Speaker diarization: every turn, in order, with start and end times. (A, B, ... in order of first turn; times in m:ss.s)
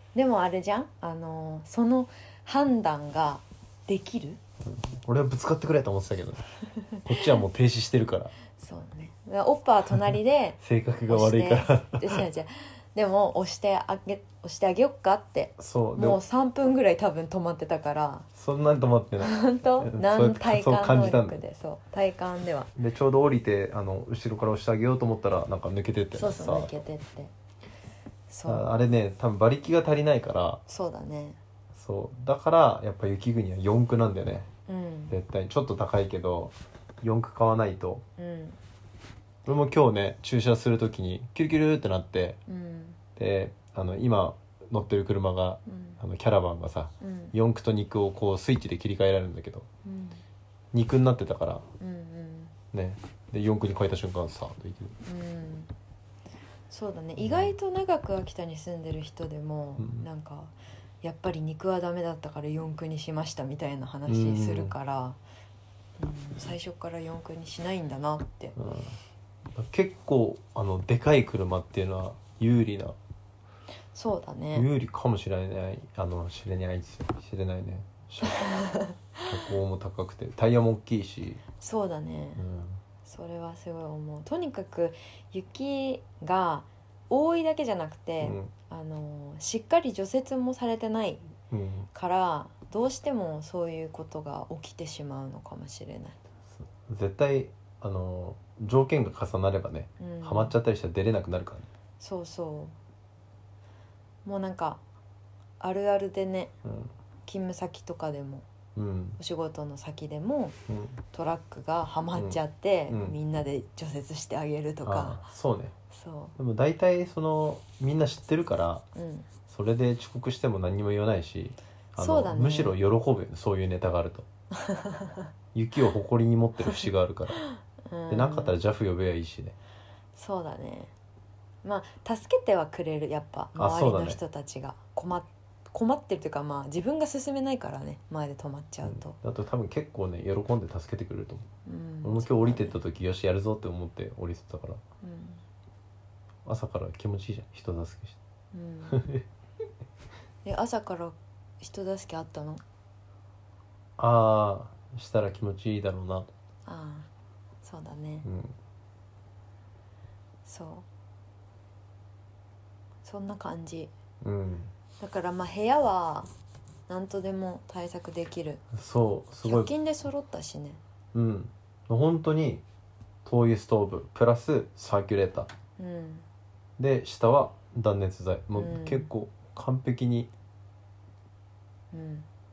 0:00.2-0:04.4 A
0:04.6-0:06.4 B
0:06.8-0:07.3 A
0:07.0-0:08.3 B
0:08.6-0:18.3 A
0:10.6-0:12.2 B
0:15.6-0:16.2 B
0:18.4-0:21.4 B
0:19.2-0:22.7 A
0:22.8-0:26.7 B
0:26.1-0:27.3 A
0:28.3-0:28.7 A
0:28.5-0:30.6 B
0:30.7-0:31.4 A
0:31.7-0:34.5 B
0:34.7-0:35.2 A
0:35.1-0:38.0 B
0:38.2-0:38.6 A
0:39.5-0:42.4 B
0:42.5-0:43.0 A
0:43.2-0:49.7 B
0:45.7-0:46.0 A
0:47.0-0:47.3 A
0:49.8-0:50.2 A
0:50.7-0:51.7 B
0:51.8-0:52.5 A
0:52.7-0:55.0 B
0:55.0-0:55.7 A
0:56.7-1:05.2 A
0:57.2-0:57.5 B
0:59.8-1:00.1 B
1:04.1-1:04.8 B
1:06.0-1:08.6 A
1:08.6-1:09.0 B
1:09.5-1:13.0 B
1:13.9-1:14.7 A
1:14.5-1:18.5 B
1:18.3-1:19.2 A
1:19.3-1:21.4 B
1:21.6-1:22.5 A
1:22.4-1:22.8 B
1:23.0-1:31.2 A
1:28.2-1:28.5 B
1:31.5-1:31.9 B
1:31.9-1:36.2 A
1:36.5-1:41.7 B
1:40.0-1:40.6 A
1:42.0-1:42.8 A
1:44.2-1:44.8 A
1:45.6-1:46.6 A
1:46.6-1:46.9 B
1:47.3-1:48.5 A
1:48.8-1:49.2 B
1:49.2-1:50.6 A
1:50.7-1:51.0 B
1:51.1-1:55.3 A
1:52.9-1:53.2 B
1:54.8-1:55.8 B
1:55.9-1:56.4 A
1:56.4-1:58.9 B
1:59.0-1:59.3 A
1:59.5-2:04.3 B
2:02.0-2:02.8 A
2:04.6-2:05.3 A
2:05.5-2:07.4 B
2:06.6-2:08.6 A
2:08.1-2:09.6 B
2:10.2-2:10.9 A
2:11.6-2:19.2 A
2:13.6-2:14.2 B
2:18.8-2:21.5 B
2:21.7-2:22.8 A
2:22.0-2:24.8 B
2:25.0-2:25.4 A
2:26.4-2:28.2 B
2:28.5-2:29.1 A
2:28.9-2:29.2 B
2:30.4-2:32.6 A
2:34.0-2:36.3 B
2:36.7-2:37.1 A
2:37.6-2:38.3 A
2:38.2-2:38.5 B
2:40.4-2:40.9 A
2:43.0-2:43.9 A
2:44.2-2:44.7 B
2:45.0-2:46.3 A
2:46.9-2:48.6 A
2:48.7-2:49.7 B
2:49.4-2:50.8 A
2:51.1-2:52.6 B
2:53.2-2:55.5 B
2:55.8-2:56.3 A
2:56.8-3:00.3 B
2:58.6-2:59.1 A
3:01.9-3:02.3 A